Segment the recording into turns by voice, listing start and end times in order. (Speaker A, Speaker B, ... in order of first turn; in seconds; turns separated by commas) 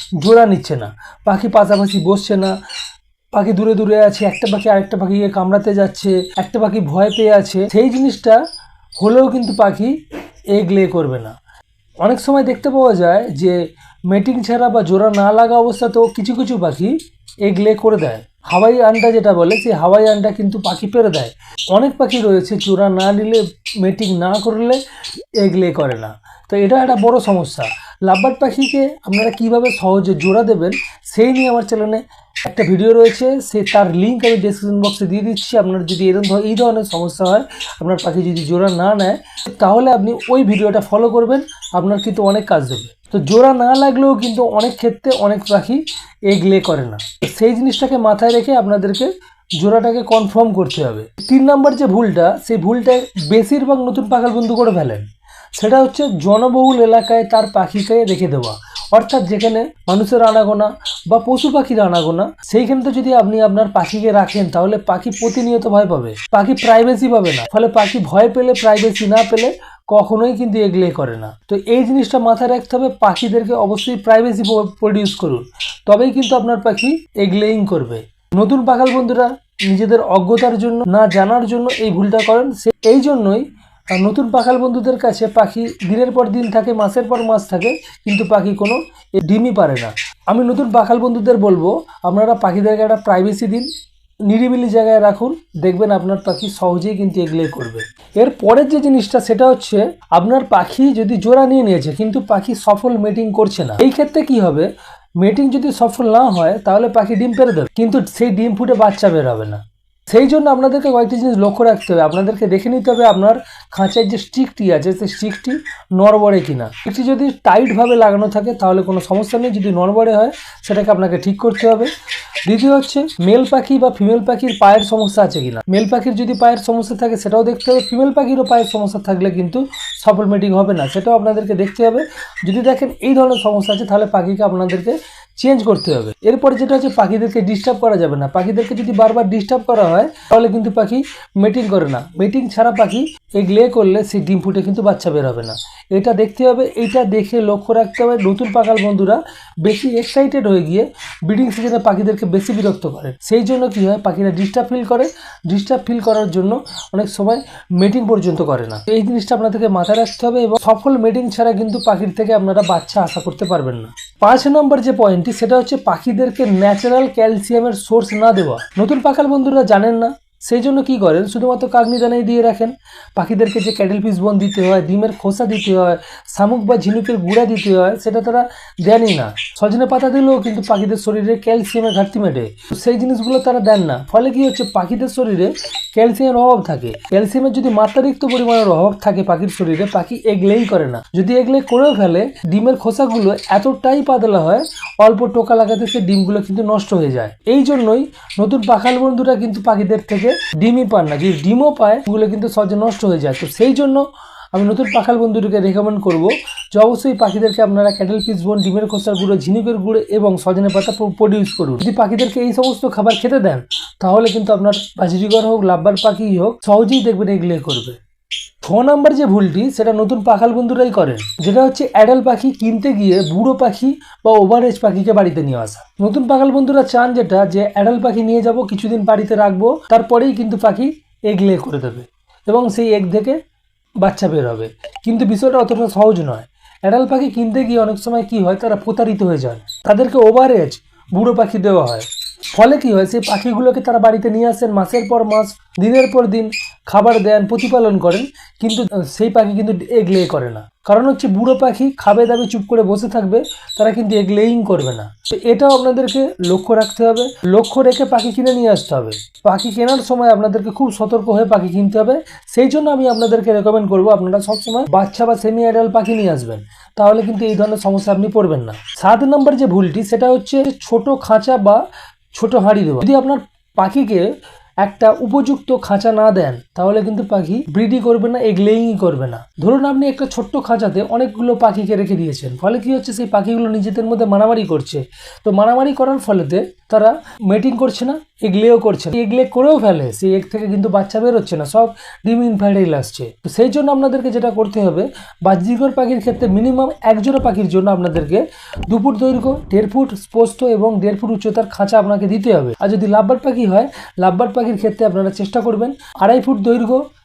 Speaker A: 0.2-2.5, Speaker A: 3.3-8.4, Speaker A: 9.0-9.9, Speaker A: 10.5-11.3, Speaker A: 12.0-24.8, Speaker A: 25.4-93.7, Speaker A: 94.3-121.9, Speaker A: 122.4-218.0, Speaker A: 218.6-233.4, Speaker A: 234.0-271.8, Speaker A: 272.3-274.3, Speaker A: 274.8-307.0